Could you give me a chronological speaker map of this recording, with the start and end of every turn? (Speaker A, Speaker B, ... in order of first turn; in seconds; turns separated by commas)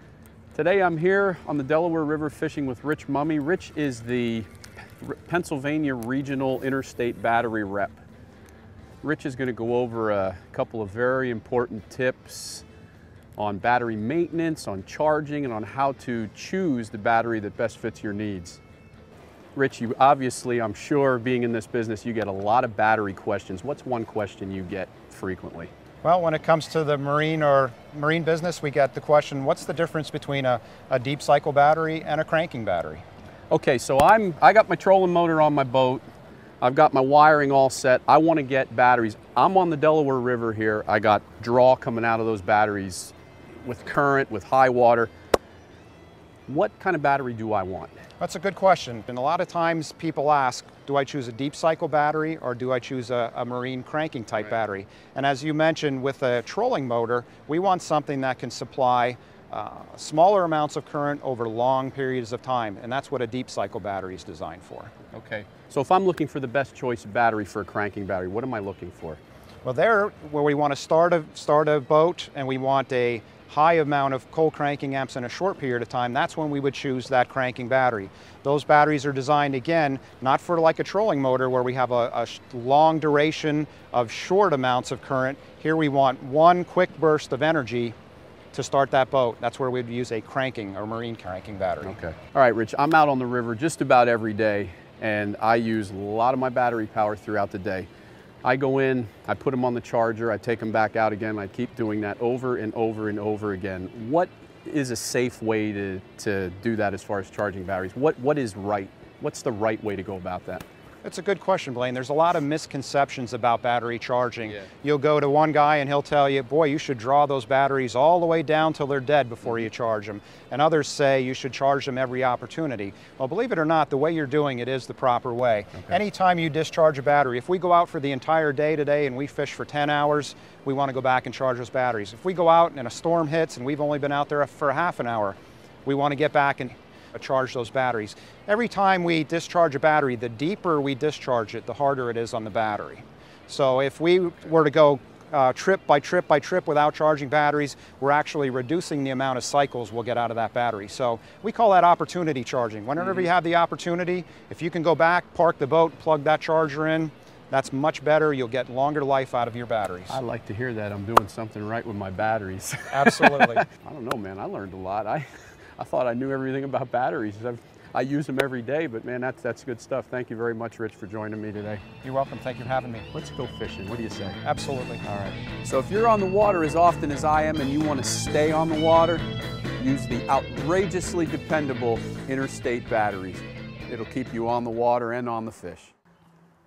Speaker A: 0.5-8.0, Speaker A: 9.0-12.6, Speaker A: 13.4-18.6, Speaker A: 19.5-25.7, Speaker B: 26.0-33.0, Speaker A: 33.5-36.0, Speaker A: 36.6-45.1, Speaker A: 46.5-47.9, Speaker B: 48.2-64.9, Speaker A: 65.1-69.2, Speaker B: 69.6-87.9, Speaker B: 88.5-91.9, Speaker A: 91.8-97.9, Speaker A: 98.4-110.6, Speaker B: 111.0-160.2, Speaker A: 160.1-171.8, Speaker B: 162.9-163.7, Speaker B: 172.0-173.1, Speaker A: 173.1-174.4, Speaker B: 174.4-175.0, Speaker A: 175.0-179.2, Speaker A: 179.8-185.9